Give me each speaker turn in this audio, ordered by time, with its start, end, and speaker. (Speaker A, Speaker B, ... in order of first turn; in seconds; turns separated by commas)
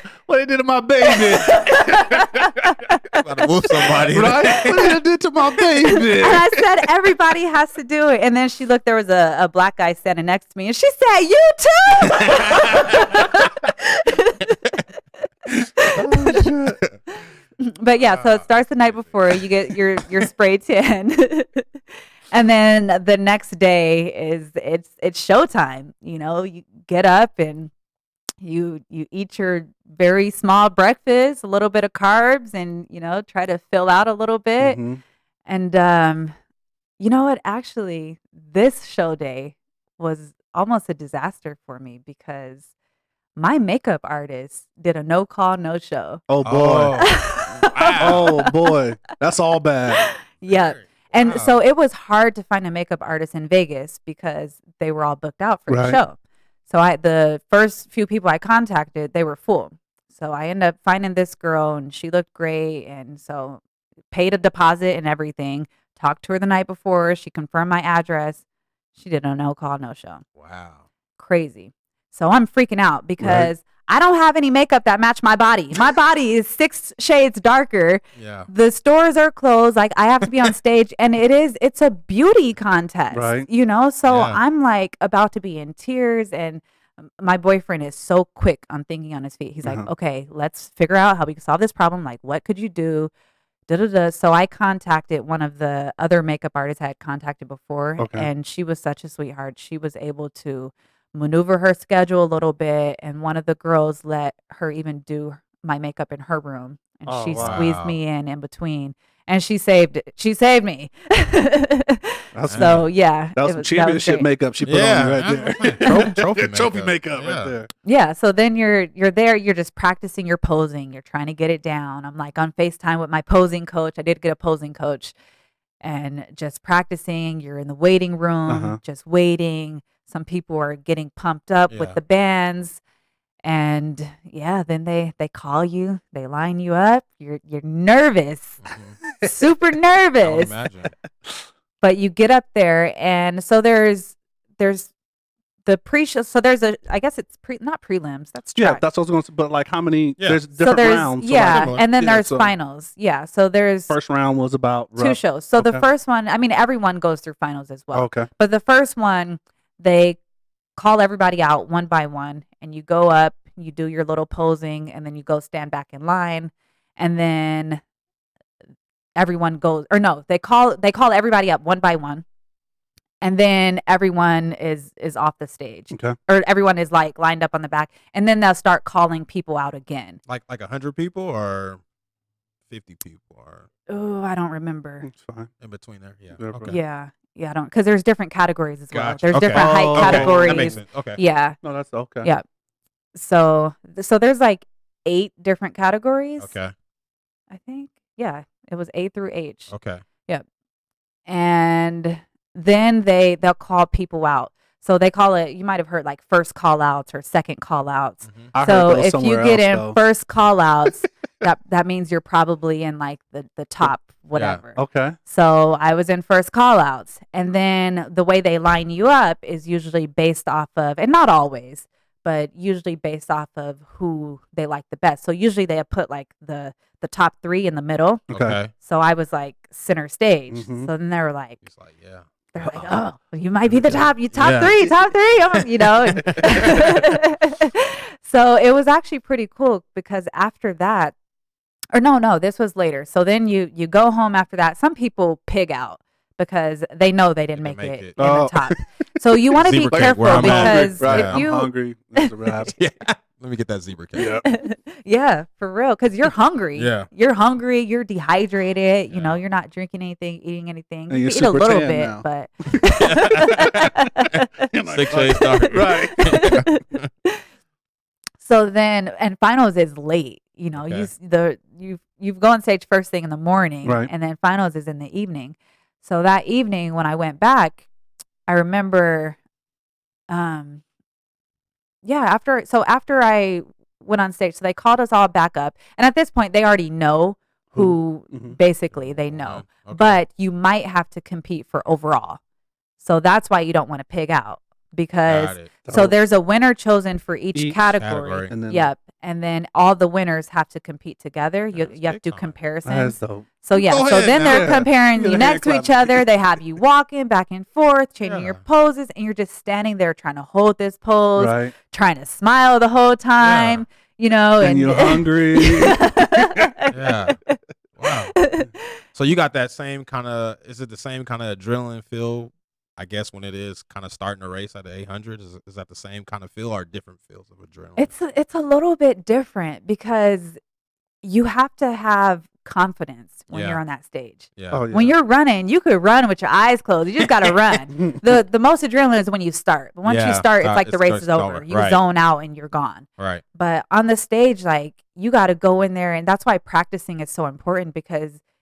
Speaker A: 0.3-2.3, Speaker B: 1.1-3.0, Speaker C: 3.1-5.0, Speaker A: 4.1-6.6, Speaker B: 6.1-14.8, Speaker C: 12.5-13.2, Speaker B: 15.8-16.5, Speaker C: 16.0-17.0, Speaker A: 16.2-16.8, Speaker B: 17.6-21.7, Speaker C: 18.0-19.4, Speaker B: 22.3-27.7, Speaker B: 28.4-34.8, Speaker A: 34.6-35.0, Speaker B: 35.5-36.4, Speaker B: 37.0-42.7, Speaker B: 43.4-46.2, Speaker A: 46.3-47.0, Speaker C: 46.4-48.3, Speaker B: 47.0-48.7, Speaker A: 48.0-50.1, Speaker B: 50.1-56.2, Speaker C: 50.4-51.6, Speaker A: 55.7-56.0, Speaker B: 56.7-68.4, Speaker B: 69.0-70.2, Speaker C: 70.4-70.8, Speaker B: 71.2-93.1, Speaker A: 73.2-73.5, Speaker C: 78.2-78.5, Speaker A: 83.1-83.5, Speaker C: 84.1-84.4, Speaker B: 93.7-114.3, Speaker A: 98.0-98.3, Speaker A: 107.1-107.7, Speaker C: 107.4-108.0, Speaker A: 112.3-112.8, Speaker C: 112.5-112.9, Speaker A: 113.3-117.7, Speaker C: 114.6-117.5, Speaker B: 115.8-116.1, Speaker B: 117.8-125.1, Speaker B: 125.8-132.8, Speaker A: 128.5-128.8, Speaker C: 131.7-132.0, Speaker B: 133.4-138.6, Speaker C: 138.6-139.0, Speaker B: 139.2-140.5, Speaker C: 140.2-140.9, Speaker B: 141.8-144.9, Speaker B: 145.7-148.8, Speaker A: 148.6-152.5, Speaker B: 150.6-153.9, Speaker C: 151.4-151.8, Speaker A: 153.9-155.8, Speaker B: 155.0-160.2, Speaker A: 157.9-158.3, Speaker B: 160.8-167.8, Speaker B: 169.2-172.2, Speaker B: 173.2-180.2, Speaker A: 175.9-176.2, Speaker C: 180.3-181.8, Speaker C: 182.7-183.7, Speaker B: 183.9-185.1, Speaker A: 185.0-185.5, Speaker C: 185.6-186.8, Speaker A: 186.4-186.8, Speaker B: 186.7-191.6, Speaker C: 188.9-191.2, Speaker A: 189.5-190.8, Speaker A: 191.6-192.3, Speaker B: 193.2-196.5, Speaker C: 196.4-196.7, Speaker B: 197.5-199.7, Speaker C: 199.7-200.0, Speaker B: 201.3-231.6, Speaker C: 208.2-208.5, Speaker A: 208.5-210.0, Speaker C: 214.3-214.6, Speaker A: 214.8-215.2, Speaker C: 228.3-228.7, Speaker A: 228.3-228.6, Speaker A: 230.5-230.9, Speaker C: 231.7-232.9, Speaker B: 232.5-241.1, Speaker A: 233.7-234.0, Speaker C: 234.3-234.9, Speaker C: 235.5-237.1, Speaker B: 241.9-252.3, Speaker C: 247.5-248.2, Speaker A: 248.2-248.8, Speaker C: 249.6-251.4, Speaker A: 249.9-252.8, Speaker C: 252.8-254.4, Speaker A: 254.2-254.5, Speaker B: 254.4-264.4, Speaker C: 256.8-257.1, Speaker C: 259.1-259.4, Speaker A: 261.1-263.7, Speaker C: 263.0-267.1, Speaker A: 264.7-266.3, Speaker B: 265.4-267.4, Speaker B: 268.4-277.9, Speaker C: 270.7-271.1, Speaker A: 273.8-274.1, Speaker B: 278.5-279.4, Speaker B: 280.3-280.8, Speaker B: 282.0-292.4, Speaker A: 287.7-288.6, Speaker C: 288.9-290.2, Speaker B: 293.0-316.9, Speaker C: 295.3-295.7, Speaker A: 295.9-296.1, Speaker C: 297.9-298.5, Speaker A: 298.5-298.9, Speaker C: 301.7-302.6, Speaker A: 302.9-303.5, Speaker C: 303.7-304.9, Speaker A: 304.4-306.3, Speaker C: 308.2-308.6, Speaker A: 311.4-311.7, Speaker C: 313.4-313.9, Speaker A: 314.6-316.7, Speaker C: 316.9-317.4, Speaker C: 318.0-318.4, Speaker B: 318.4-318.7, Speaker C: 319.1-328.1, Speaker B: 328.0-330.6, Speaker B: 331.2-348.4, Speaker C: 333.5-333.8, Speaker C: 334.6-335.0, Speaker A: 334.7-335.1, Speaker C: 340.1-342.0, Speaker C: 343.2-343.4